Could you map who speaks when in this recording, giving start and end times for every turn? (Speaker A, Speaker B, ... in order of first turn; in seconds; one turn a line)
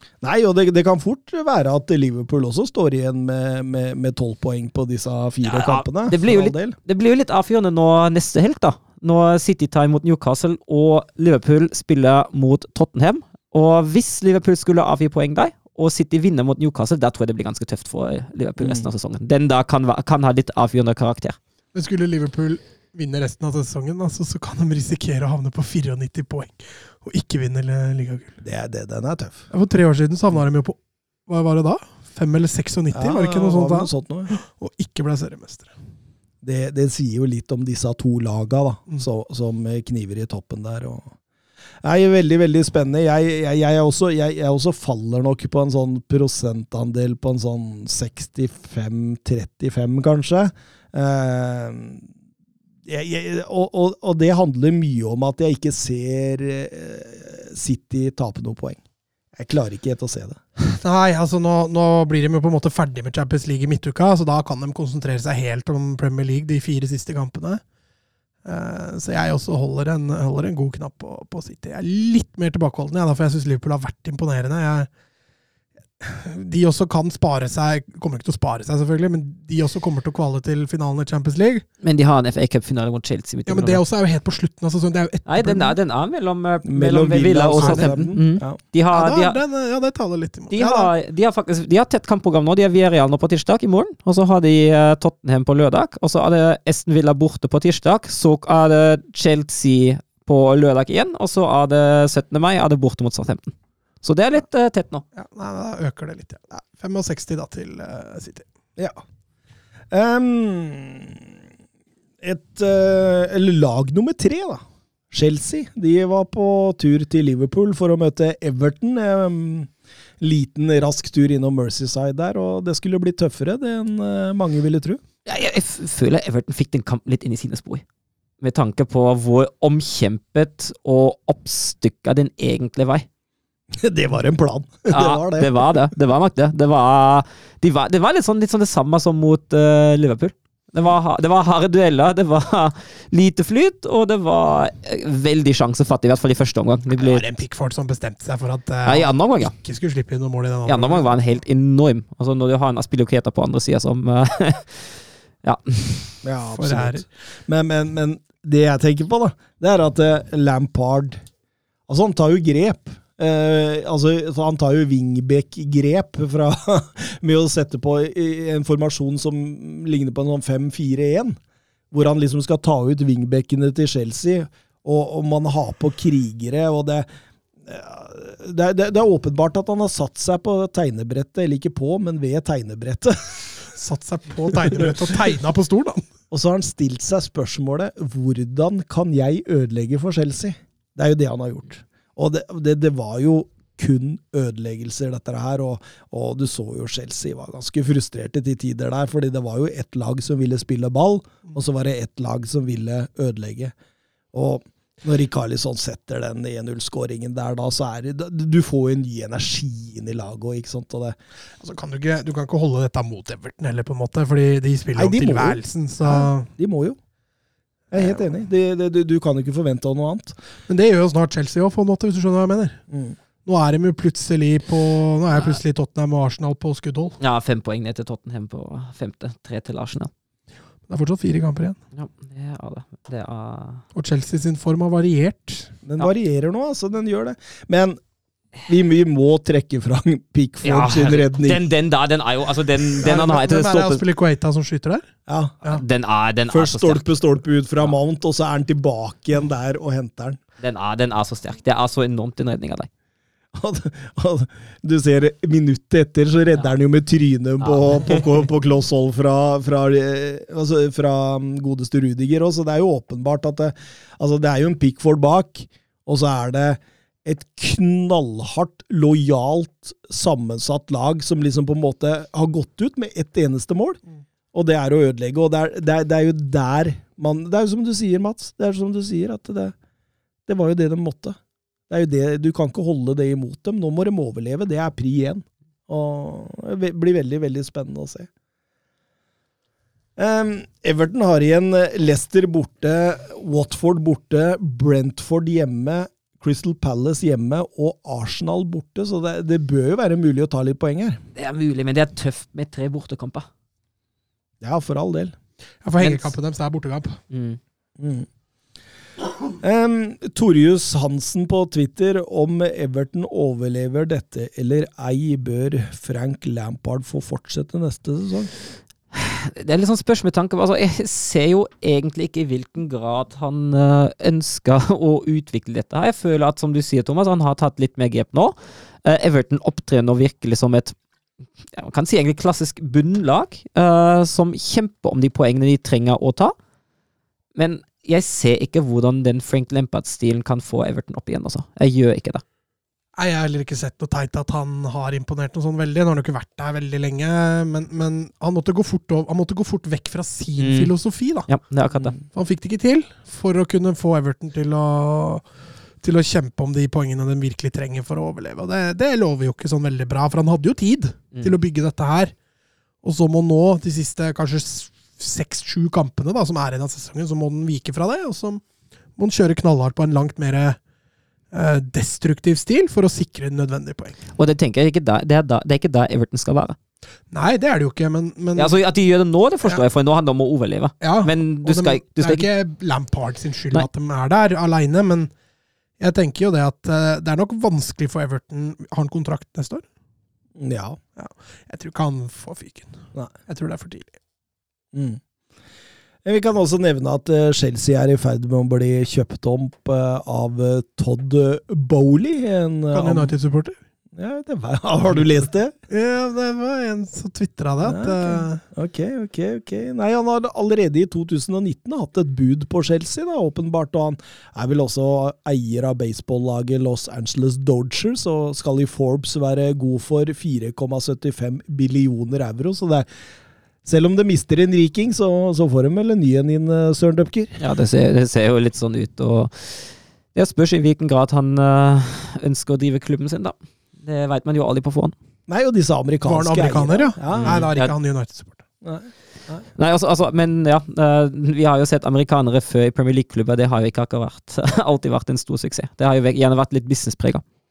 Speaker A: 0.2-6.8
Speaker B: 5.4-21.4
Speaker A: 18.6-18.9
Speaker C: 21.7-28.4
Speaker A: 28.4-29.5
Speaker C: 29.5-30.8
Speaker C: 31.3-35.8
Speaker A: 32.9-34.3
Speaker A: 36.4-41.1
Speaker A: 41.8-52.1
Speaker A: 52.9-58.8
Speaker A: 59.4-60.4
Speaker C: 60.7-67.6
Speaker C: 68.5-74.9
Speaker C: 76.0-81.7
Speaker B: 81.8-83.8
Speaker C: 83.5-85.8
Speaker B: 85.3-89.4
Speaker A: 86.7-88.6
Speaker C: 87.6-88.1
Speaker C: 88.9-90.9
Speaker B: 90.5-105.0
Speaker C: 105.2-108.5
Speaker A: 109.9-111.3
Speaker A: 112.2-125.0
Speaker B: 125.3-127.8
Speaker B: 128.4-133.1
Speaker A: 133.7-135.5
Speaker B: 134.9-147.2
Speaker C: 146.9-151.2
Speaker B: 148.9-149.5
Speaker B: 150.7-156.2
Speaker A: 156.2-161.2
Speaker C: 156.5-157.1
Speaker A: 161.9-171.4
Speaker A: 171.9-177.1
Speaker A: 177.7-183.6
Speaker C: 183.8-186.0
Speaker A: 184.7-184.9
Speaker A: 186.3-203.7
Speaker A: 204.3-211.2
Speaker C: 211.6-216.5
Speaker A: 215.0-217.0
Speaker A: 217.9-220.4
Speaker C: 220.7-222.8
Speaker A: 222.9-223.2
Speaker C: 223.5-227.2
Speaker B: 227.2-230.1
Speaker C: 230.9-231.8
Speaker B: 231.9-233.8
Speaker C: 233.9-235.7
Speaker A: 235.8-238.0
Speaker A: 238.7-241.6
Speaker B: 240.6-244.0
Speaker C: 243.0-245.1
Speaker A: 245.3-245.5
Speaker B: 245.7-247.2
Speaker A: 246.5-250.4
Speaker B: 250.6-252.9
Speaker A: 253.5-274.0
Speaker B: 257.6-258.2
Speaker A: 274.5-279.8
Speaker A: 280.5-281.4
Speaker A: 281.9-288.3
Speaker A: 290.2-301.2
Speaker B: 301.4-303.5
Speaker A: 304.6-305.4
Speaker C: 305.8-307.2
Speaker B: 306.0-306.3
Speaker B: 307.3-307.6
Speaker A: 308.0-308.3
Speaker A: 309.6-318.5
Speaker B: 319.1-330.9
Speaker B: 331.7-336.6
Speaker B: 337.6-342.4
Speaker C: 343.2-351.5
Speaker B: 350.6-350.9
Speaker B: 351.5-352.1
Speaker C: 352.3-355.4
Speaker C: 356.0-362.3
Speaker B: 361.3-361.6
Speaker C: 363.0-368.6
Speaker C: 369.2-370.8
Speaker C: 371.5-374.2
Speaker B: 374.4-376.8
Speaker C: 377.3-378.8
Speaker B: 378.6-382.5
Speaker C: 381.0-385.3
Speaker C: 386.0-389.8
Speaker A: 390.6-391.0
Speaker C: 391.2-394.1
Speaker A: 394.9-395.2
Speaker A: 396.2-403.3
Speaker C: 402.9-403.8
Speaker A: 404.1-405.8
Speaker C: 405.9-408.6
Speaker A: 407.8-423.1
Speaker A: 423.9-427.6
Speaker B: 427.6-435.1
Speaker A: 435.5-437.7
Speaker C: 436.3-438.6
Speaker B: 437.4-437.9
Speaker A: 438.8-439.7
Speaker B: 439.8-447.4